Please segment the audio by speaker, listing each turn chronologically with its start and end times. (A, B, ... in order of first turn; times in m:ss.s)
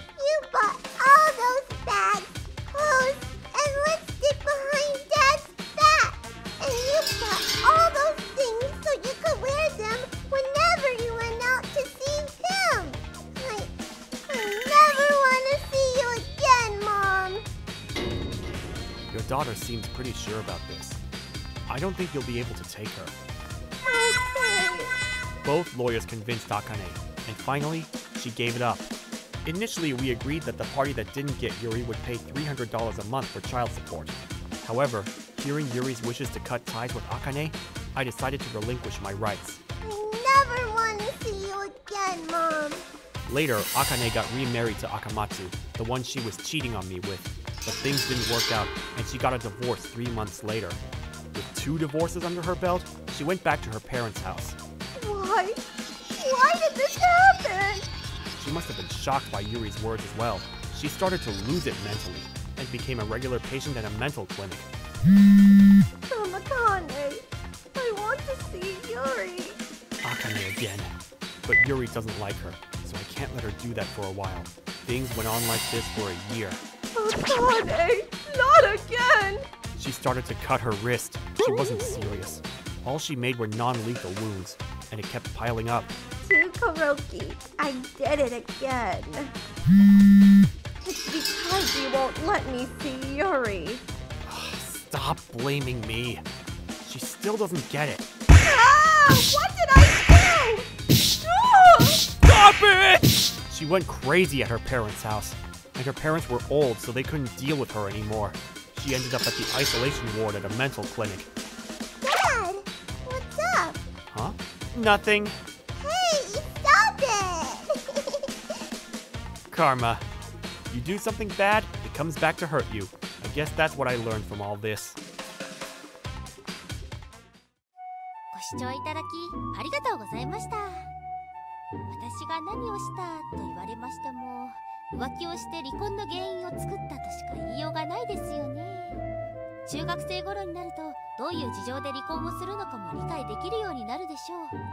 0:00.2-0:13.7 A
0:14.3-0:17.4 A
0:19.1-0:21.0 B
0:21.7-0:23.2 B
0:23.8-0:24.9 C
0:25.4-0:28.9 B
0:29.4-0:39.6 B
0:39.8-0:42.8 A
0:43.3-0:50.8 B
0:51.3-0:54.6 B
0:55.0-0:55.6 C
0:56.2-0:57.9 C
0:58.4-1:04.7 B
1:06.1-1:07.2 C
1:07.8-1:09.6 C
1:10.0-1:10.9 B
1:11.4-1:16.6 B
1:17.0-1:19.4 C
1:19.8-1:25.9 B
1:26.2-1:29.3 C
1:30.8-1:33.8 C
1:34.2-1:36.2 B
1:36.8-1:38.0 B
1:38.4-1:42.0 C
1:42.2-1:51.3 B
1:52.0-1:53.8 A
1:54.1-1:55.4 B
1:55.8-1:58.0 A
1:59.5-2:00.0 B
2:00.7-2:05.0 B
2:08.3-2:10.9 D
2:11.9-2:19.0 D
2:19.6-2:24.6 D